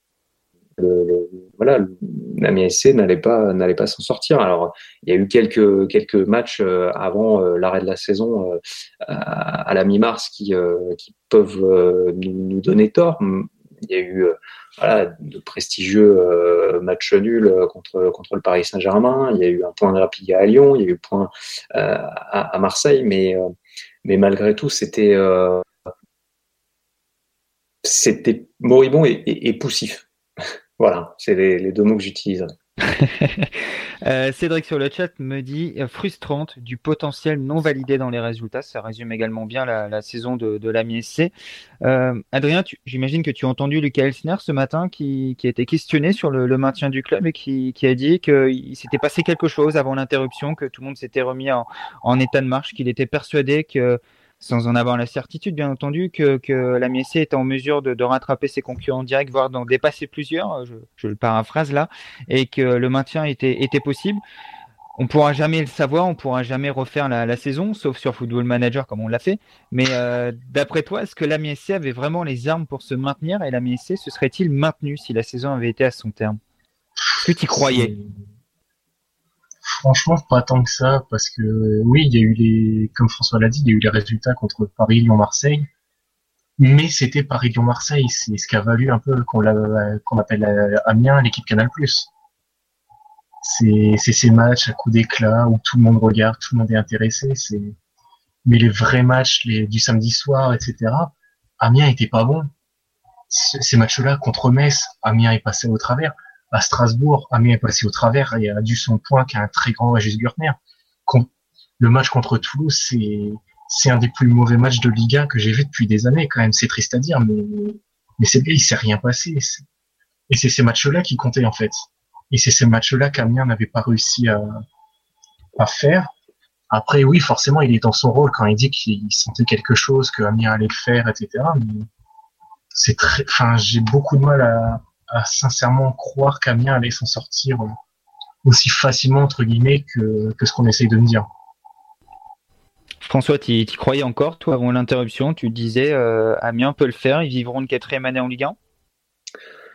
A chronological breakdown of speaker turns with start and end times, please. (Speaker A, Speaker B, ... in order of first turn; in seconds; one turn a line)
Speaker A: 0.8-23.4
Speaker A: 24.0-25.6
Speaker A: 27.8-30.0
Speaker A: 30.8-32.5
Speaker B: 32.9-33.5
Speaker B: 34.0-41.3
Speaker B: 41.8-64.2
Speaker B: 65.0-76.4
Speaker C: 77.1-78.2
Speaker B: 77.2-77.9
Speaker C: 79.6-85.7
Speaker C: 86.6-92.1
Speaker C: 93.4-97.8
Speaker C: 98.4-102.5
Speaker C: 103.3-119.6
Speaker C: 120.3-124.5
Speaker C: 125.5-126.1
Speaker C: 126.7-131.9
Speaker C: 132.7-137.8
Speaker C: 138.4-141.3
Speaker B: 143.0-148.6